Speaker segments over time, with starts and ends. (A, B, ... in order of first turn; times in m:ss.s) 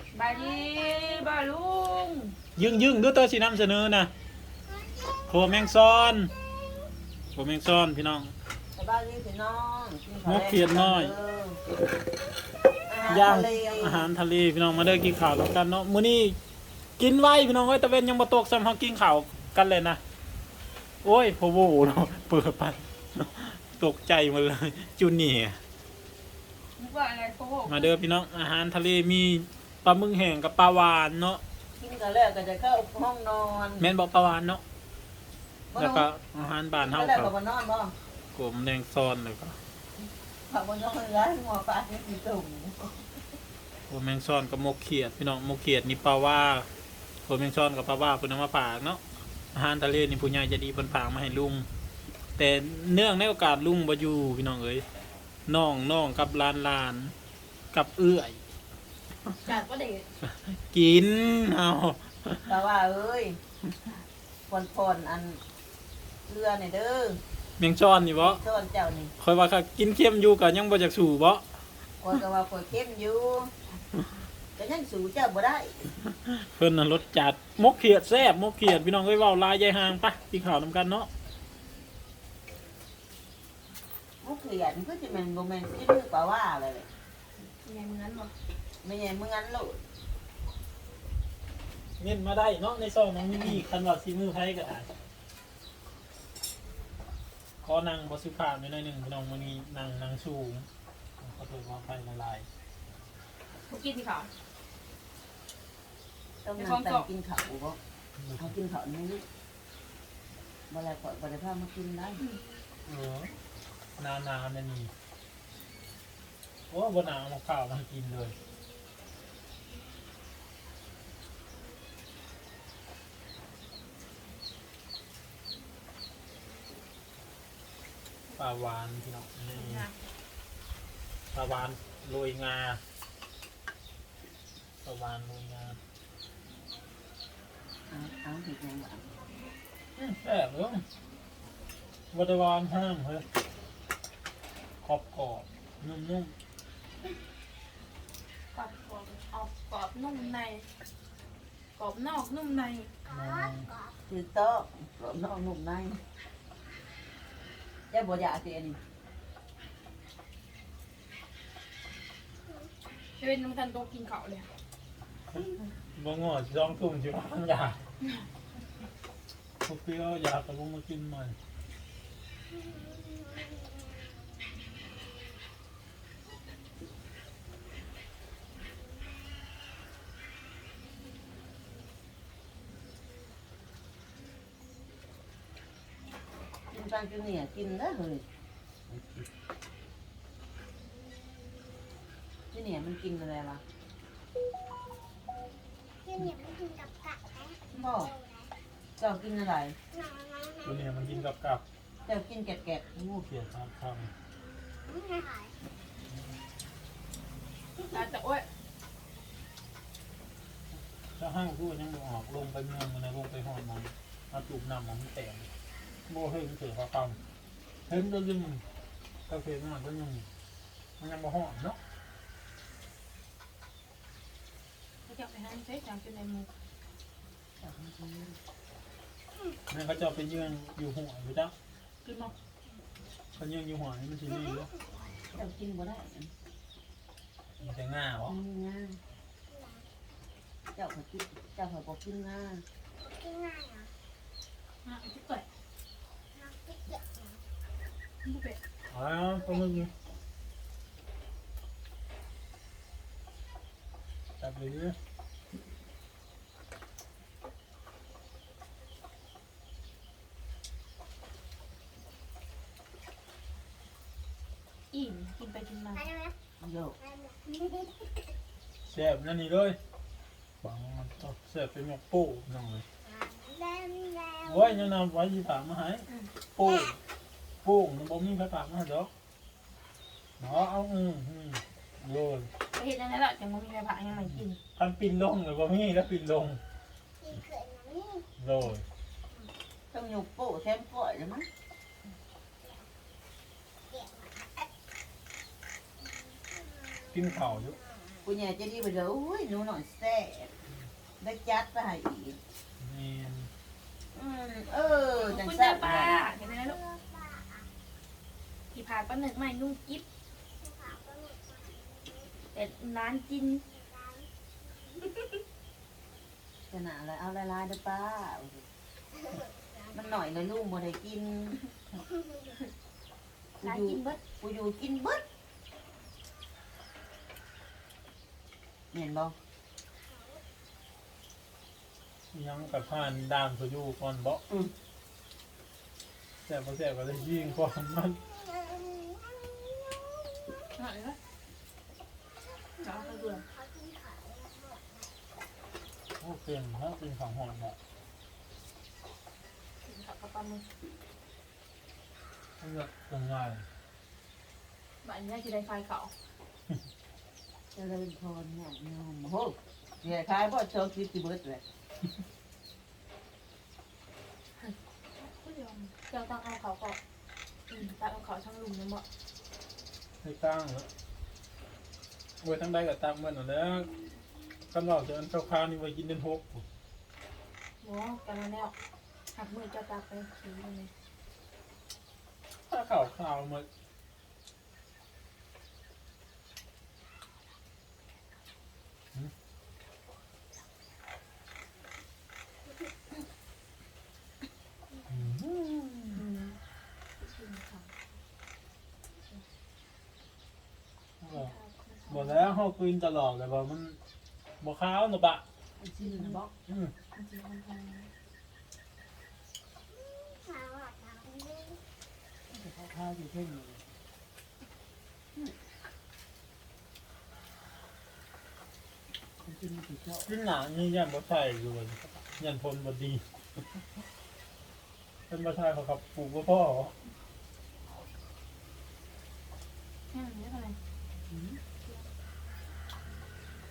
0:00.1-0:02.4 A
0:02.6-0:04.1 B
0:05.3-0:06.3 B
0:07.4-0:08.3 B
0:08.8-0:11.6 C
0:10.2-0:11.1 B
0:12.9-0:14.1 C
0:13.0-0:16.4 B
0:17.0-0:20.0 B
0:21.0-0:25.6 B
0:26.8-0:27.9 A
0:27.7-0:31.4 B
0:31.8-0:33.9 C
0:33.8-0:34.6 B
0:35.7-0:36.1 C
0:35.8-0:37.3 B
0:36.8-0:37.9 C
0:38.3-0:39.6 B
0:40.5-0:43.2 C
0:43.9-0:46.7 B
0:47.2-0:49.0 B
0:49.5-0:51.7 B
0:52.4-0:54.8 B
0:55.5-0:57.1 B
0:57.7-0:58.4 B
0:59.4-1:00.1 A
1:00.2-1:02.5 B
1:02.5-1:03.4 C
1:04.5-1:05.4 C
1:06.3-1:07.2 C
1:07.6-1:08.4 B
1:08.2-1:09.1 C
1:09.2-1:11.6 B
1:12.0-1:13.5 C
1:14.6-1:15.8 C
1:16.0-1:21.1 B
1:24.2-1:26.9 C
1:27.6-1:28.3 A
1:28.8-1:29.8 C
1:32.0-1:34.9 B
1:37.6-1:40.7 B
1:41.2-1:42.5 B
1:43.7-1:44.3 A
1:46.4-1:47.8 C
1:46.6-1:47.1 A
1:48.2-1:48.5 B
1:48.4-1:49.2 C
1:50.7-1:52.2 C
1:52.9-1:53.3 B
1:54.0-1:54.9 B
1:56.7-1:58.4 B
2:08.4-2:09.9 B
2:09.5-2:10.0 A
2:11.3-2:12.8 B
2:14.8-2:15.8 B
2:17.9-2:19.1 C
2:20.0-2:20.8 B
2:22.1-2:23.3 B
2:24.8-2:26.3 B
2:28.5-2:30.7 A
2:31.8-2:33.0 A
2:33.1-2:33.7 B
2:33.2-2:33.9 D
2:34.1-2:36.0 C
2:37.9-2:38.8 C
2:43.2-2:44.5 A
2:45.3-2:47.8 B
2:49.6-2:51.4 B
2:53.0-2:53.4 D
3:06.7-3:08.2 C
3:08.9-3:09.3 C
3:12.5-3:13.6 C
3:16.2-3:18.5 D
3:17.7-3:18.1 C
3:19.0-3:19.8 C
3:19.9-3:20.7 D
3:20.6-3:21.6 B
3:22.0-3:22.8 C
3:22.9-3:24.1 B
3:24.6-3:25.5 D
3:27.8-3:28.5 A
3:31.2-3:35.5 B
3:36.1-3:37.2 B
3:37.9-3:38.6 B
3:39.3-3:40.3 B
3:41.0-3:41.8 B
3:45.1-3:46.5 A
3:47.6-3:48.4 C
3:49.7-3:51.5 B
3:52.0-3:52.3 A
3:53.4-3:54.7 B
3:55.3-3:56.3 C
3:57.6-3:58.4 B
3:58.3-3:59.0 C
3:59.5-3:59.8 D
4:00.8-4:02.6 C
4:03.1-4:03.9 D
4:04.8-4:05.4 A
4:06.4-4:07.4 D
4:08.2-4:08.6 A
4:08.9-4:09.9 B
4:14.4-4:15.0 B
4:24.9-4:26.1 A
4:26.0-4:26.3 D
4:26.6-4:27.0 C
4:27.1-4:27.9 D
4:28.8-4:29.8 B
4:30.6-4:32.8 B
4:33.0-4:34.5 D
4:34.4-4:37.0 B
4:37.6-4:39.1 B
4:40.4-4:42.5 B
4:42.7-4:44.6 A
4:44.8-4:46.6 B
4:47.2-4:48.2 D
4:48.4-4:48.8 B
4:49.9-4:51.5 C
4:53.9-4:54.5 D
4:56.5-4:57.1 D
4:57.1-4:57.8 B
4:57.8-4:58.2 D
4:58.2-5:00.5 C
5:01.2-5:02.4 C
5:02.8-5:03.5 B
5:04.1-5:06.1 C
5:05.2-5:06.8 A
5:06.9-5:07.7 D
5:08.7-5:10.0 A
5:10.6-5:12.3 D
5:12.5-5:13.6 A
5:13.9-5:14.3 D
5:16.7-5:18.7 C
5:19.3-5:19.9 D
5:19.9-5:21.8 C
5:23.6-5:25.2 C
5:23.6-5:24.2 A
5:28.9-5:29.4 C
5:32.3-5:34.4 B
5:36.5-5:38.2 B
5:38.7-5:40.4 D
5:40.8-5:41.2 A
5:42.8-5:43.4 A
5:42.8-5:45.1 D
5:46.2-5:47.8 B
5:49.8-5:50.7 A
5:52.6-5:53.7 B
5:55.0-5:56.1 A
5:57.7-6:01.6 C
6:04.6-6:07.0 A
6:07.7-6:09.0 A
6:10.2-6:10.9 B
6:12.4-6:13.9 B
6:14.7-6:16.6 B
6:17.8-6:18.7 A
6:19.3-6:20.9 A
6:22.7-6:23.7 B
6:35.1-6:36.2 B
6:36.2-6:36.6 A
6:37.2-6:37.9 A
6:41.2-6:41.5 B
6:41.3-6:42.4 A
6:42.1-6:44.0 B
6:44.6-6:45.4 B
6:45.8-6:46.5 C
6:46.0-6:46.4 A
6:46.7-6:46.9 B
6:47.1-6:48.1 A
6:50.0-6:51.8 D
6:52.5-6:53.9 C
6:59.4-7:00.3 C
7:00.2-7:03.3 B
7:05.3-7:07.0 B
7:10.1-7:10.8 A
7:11.3-7:11.6 C